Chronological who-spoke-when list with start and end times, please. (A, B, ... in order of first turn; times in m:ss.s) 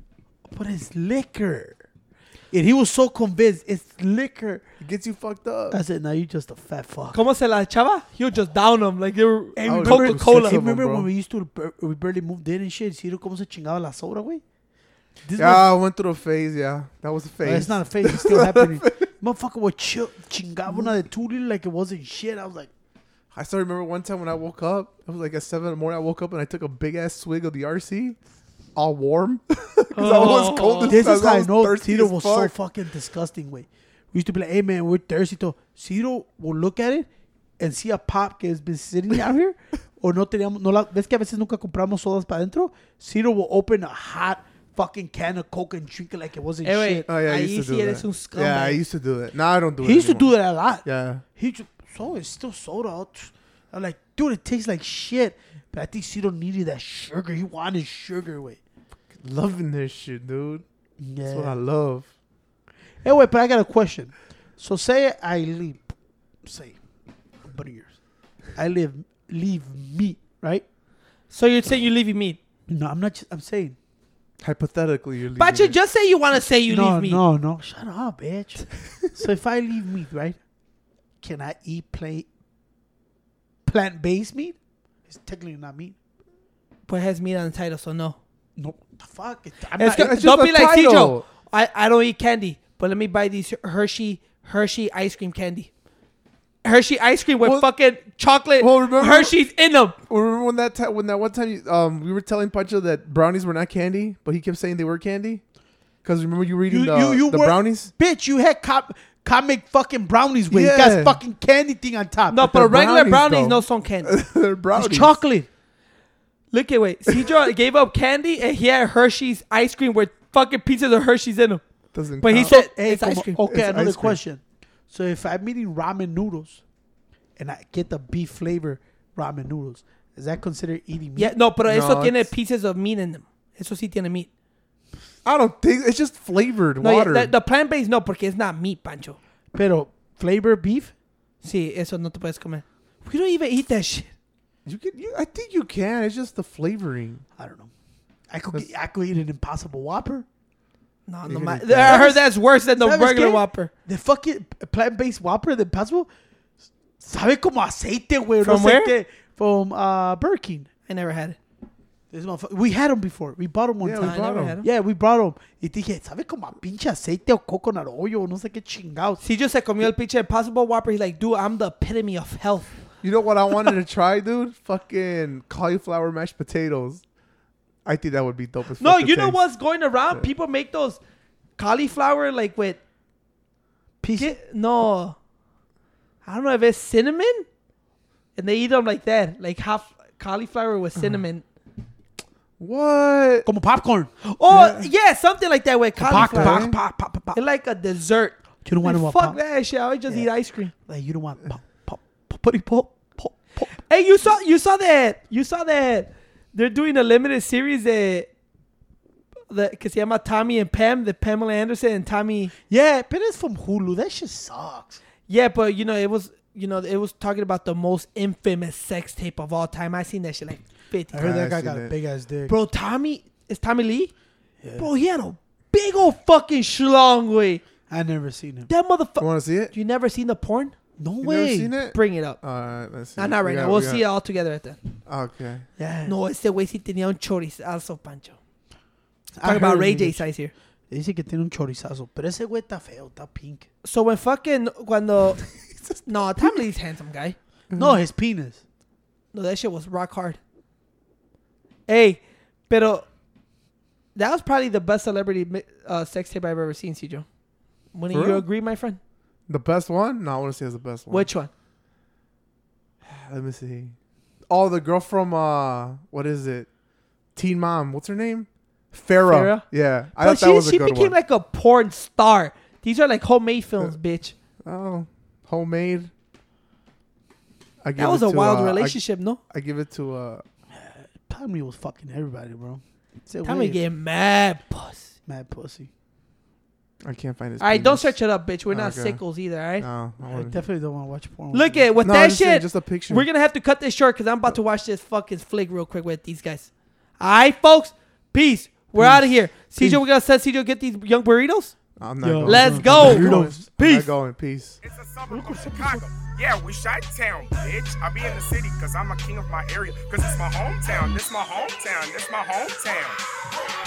0:00.5-0:01.8 A
0:02.5-0:04.6 A
0:04.8-0:05.8 B
0:05.7-0:07.2 A
0:07.1-0:10.6 C
0:09.6-0:14.4 A
0:09.6-0:11.1 B
0:15.2-0:15.7 A
0:15.4-0:19.1 B
0:17.4-0:22.7 A
0:23.3-0:28.2 B
0:28.7-0:32.5 B
0:29.9-0:31.1 C
0:30.9-0:37.1 A
0:37.6-0:47.0 A
0:46.6-0:48.8 C
0:47.1-0:50.3 B
0:49.8-0:58.6 A
0:50.8-0:51.2 B
0:59.1-1:00.6 B
1:01.0-1:01.6 A
1:01.2-1:02.1 B
1:03.0-1:05.9 A
1:06.4-1:06.8 A
1:07.4-1:07.9 A
1:08.5-1:10.6 A
1:11.3-1:12.4 C
1:12.7-1:13.8 A
1:14.4-1:15.8 B
1:15.4-1:17.2 C
1:16.7-1:20.4 A
1:21.2-1:22.2 A
1:23.6-1:26.0 A
1:26.9-1:28.2 C
1:28.6-1:30.1 A
1:29.8-1:35.7 C
1:29.8-1:31.2 B
1:36.6-1:40.0 C
1:38.6-1:39.4 B
1:40.1-1:45.4 B
1:46.0-1:47.9 B
1:46.7-1:52.8 A
1:50.5-1:51.2 B
1:52.3-1:54.1 C
1:52.5-1:55.2 B
1:54.7-1:55.5 A
1:56.5-2:01.6 C
2:01.9-2:02.6 B
2:02.2-2:03.4 C
2:02.3-2:06.6 A
2:03.5-2:04.2 B
2:07.4-2:11.3 A
2:11.2-2:14.3 C
2:11.6-2:12.3 B
2:15.2-2:17.3 B
2:16.8-2:19.2 C
2:19.5-2:20.9 A
2:21.4-2:24.1 C
2:24.6-2:27.2 B
2:27.4-2:27.7 A
2:28.3-2:30.2 A
2:31.1-2:33.7 C
2:31.2-2:32.2 B
2:31.8-2:32.2 A
2:32.8-2:36.1 A
2:37.0-2:40.7 A
2:38.4-2:38.9 C
2:40.9-2:41.4 C
2:42.1-2:49.2 A
2:43.8-2:44.6 B
2:44.0-2:44.7 C
2:49.2-2:52.8 C
2:53.0-2:57.0 B
2:57.8-2:59.4 B
2:58.8-3:01.0 C
3:01.6-3:02.8 C
3:04.0-3:04.4 A
3:04.2-3:05.2 C
3:06.2-3:07.4 C
3:08.4-3:11.4 C
3:12.6-3:13.5 B
3:13.4-3:14.1 A
3:14.2-3:20.7 C
3:14.5-3:14.9 B
3:16.0-3:16.8 A
3:16.1-3:16.8 B
3:18.6-3:19.4 A
3:20.1-3:23.8 A
3:23.7-3:28.3 C
3:29.5-3:32.5 C
3:32.7-3:35.0 A
3:35.3-3:41.2 C
3:41.1-3:42.6 A
3:41.2-3:41.9 B
3:42.5-3:44.1 C
3:44.6-3:44.9 A
3:44.8-3:47.6 C
3:47.9-3:48.7 A
3:48.7-3:50.7 C
3:49.2-3:49.7 B
3:51.0-3:51.7 A
3:51.2-3:54.0 B
3:51.9-3:52.4 C
3:53.2-3:54.8 C
3:55.0-3:55.6 B
3:55.8-3:56.1 A
3:56.0-3:58.4 C
3:59.3-4:00.2 A
3:59.4-4:00.5 C
4:00.9-4:03.7 A
4:03.8-4:05.4 C
4:05.8-4:06.5 B
4:06.0-4:07.4 C
4:07.7-4:08.0 B
4:07.7-4:08.6 A
4:09.3-4:10.4 C
4:11.9-4:13.0 C
4:14.1-4:17.2 C
4:17.9-4:19.0 C
4:18.1-4:18.4 B
4:19.5-4:21.3 B
4:21.1-4:21.5 C
4:23.0-4:23.9 B
4:24.5-4:26.7 B
4:27.4-4:31.2 B
4:29.2-4:29.6 C
4:30.2-4:34.3 C
4:34.6-4:36.1 B
4:37.8-4:40.4 B
4:38.0-4:39.4 C
4:40.7-4:43.8 A
4:43.4-4:45.1 C
4:45.3-4:45.9 A
4:47.0-4:48.2 B
4:47.6-4:49.8 C
4:48.7-4:49.2 B
4:49.8-4:50.6 B
4:50.3-4:51.9 A
4:51.5-5:01.7 C
4:52.0-4:53.3 B
4:59.0-4:59.2 A
5:02.0-5:04.8 B
5:02.2-5:03.6 A
5:02.4-5:04.0 C
5:04.8-5:13.2 D
5:05.3-5:06.0 A